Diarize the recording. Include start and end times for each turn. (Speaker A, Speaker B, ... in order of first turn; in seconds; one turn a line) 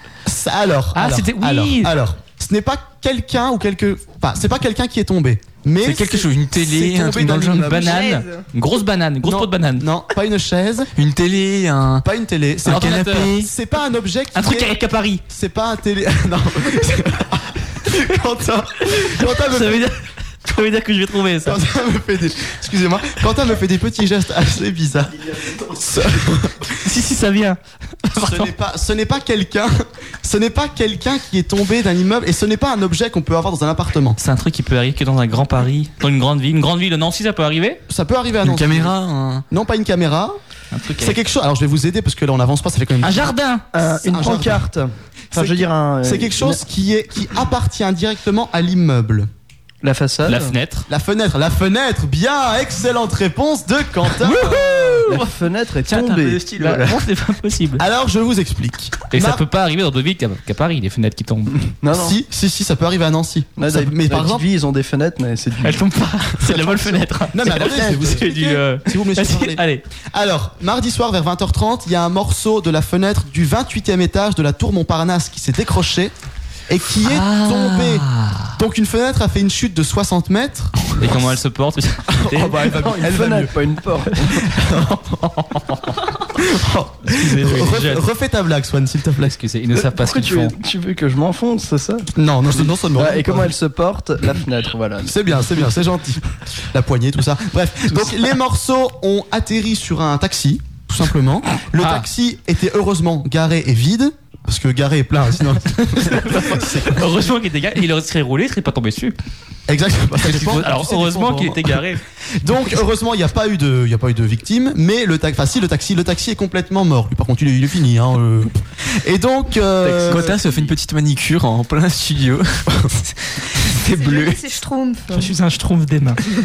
Speaker A: 0.2-8.1
Speaker B: 0.9-1.9
Speaker C: 5.8-7.7
Speaker B: 7.5-9.8
Speaker D: 7.8-8.4
Speaker A: 9.2-10.9
Speaker C: 10.9-12.1
Speaker A: 12.0-19.9
Speaker C: 12.6-13.5
Speaker B: 12.7-13.3
Speaker B: 14.3-15.2
Speaker B: 19.0-21.6
Speaker A: 21.4-26.8
Speaker B: 26.8-28.5
Speaker A: 28.1-34.2
Speaker B: 34.2-37.8
Speaker A: 37.9-39.0
Speaker C: 38.4-39.4
Speaker A: 39.5-40.3
Speaker B: 40.7-41.2
Speaker A: 41.0-43.3
Speaker B: 43.0-43.6
Speaker E: 43.7-46.6
Speaker A: 43.9-44.7
Speaker A: 45.3-49.3
Speaker E: 49.8-50.5
Speaker B: 50.2-50.9
Speaker A: 50.9-54.5
Speaker B: 54.2-55.2
Speaker E: 54.5-57.0
Speaker B: 55.9-57.8
Speaker A: 57.8-59.4
Speaker B: 59.1-61.6
Speaker E: 61.8-62.1
Speaker A: 61.9-64.4
Speaker E: 63.6-65.8
Speaker B: 65.6-69.8
Speaker A: 67.3-76.1
Speaker A: 76.7-81.3
Speaker B: 77.0-78.5
Speaker B: 81.0-82.7
Speaker A: 82.1-83.6
Speaker E: 82.7-84.5
Speaker A: 84.5-85.3
Speaker B: 85.3-86.0
Speaker A: 86.2-89.3
Speaker B: 87.0-88.0
Speaker B: 89.2-90.5
Speaker E: 89.7-95.5
Speaker A: 92.2-93.5
Speaker A: 95.0-107.1
Speaker B: 101.8-102.1
Speaker B: 105.9-109.2
Speaker A: 109.7-111.8
Speaker B: 110.2-112.0
Speaker A: 112.3-120.3
Speaker E: 119.8-120.7
Speaker C: 120.0-124.4
Speaker D: 123.9-125.3
Speaker B: 125.1-126.2